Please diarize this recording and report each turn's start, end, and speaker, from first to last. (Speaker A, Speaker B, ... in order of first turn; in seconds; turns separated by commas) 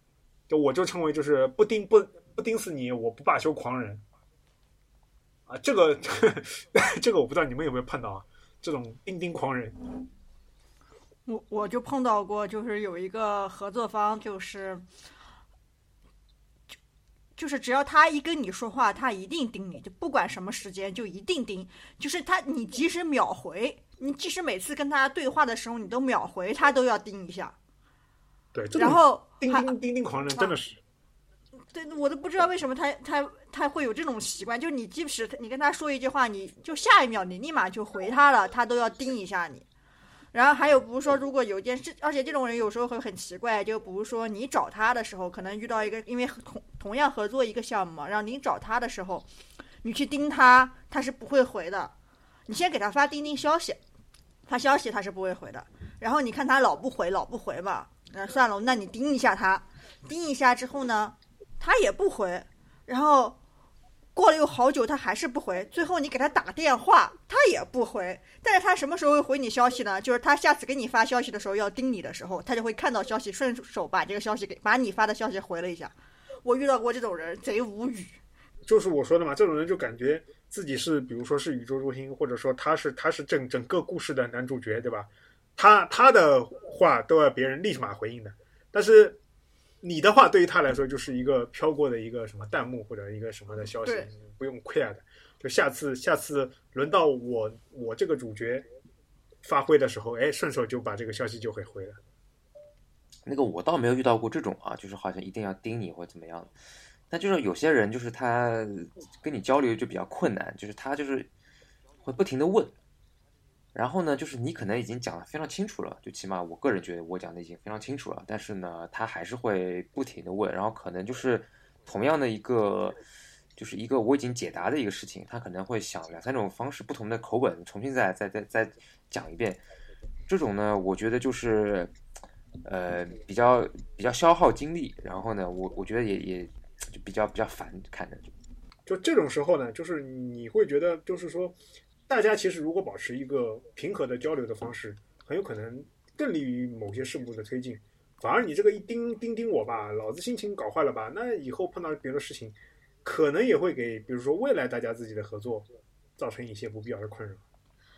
Speaker A: 0.5-4.0, Speaker A: 5.5-9.8, Speaker B: 11.3-14.8, Speaker B: 17.4-27.6, Speaker A: 28.6-30.8, Speaker B: 28.8-29.7, Speaker B: 31.7-39.7, Speaker B: 40.3-49.3, Speaker B: 49.8-51.9, Speaker B: 52.5-53.8, Speaker B: 54.5-63.4, Speaker B: 64.1-78.2, Speaker A: 78.7-89.2, Speaker A: 89.8-98.7, Speaker A: 99.4-102.0, Speaker C: 103.3-106.5, Speaker C: 107.1-111.3, Speaker C: 112.0-112.7, Speaker C: 113.8-123.0, Speaker C: 123.6-129.6, Speaker C: 130.3-131.9, Speaker C: 132.6-138.3, Speaker A: 138.9-141.6, Speaker A: 142.1-157.4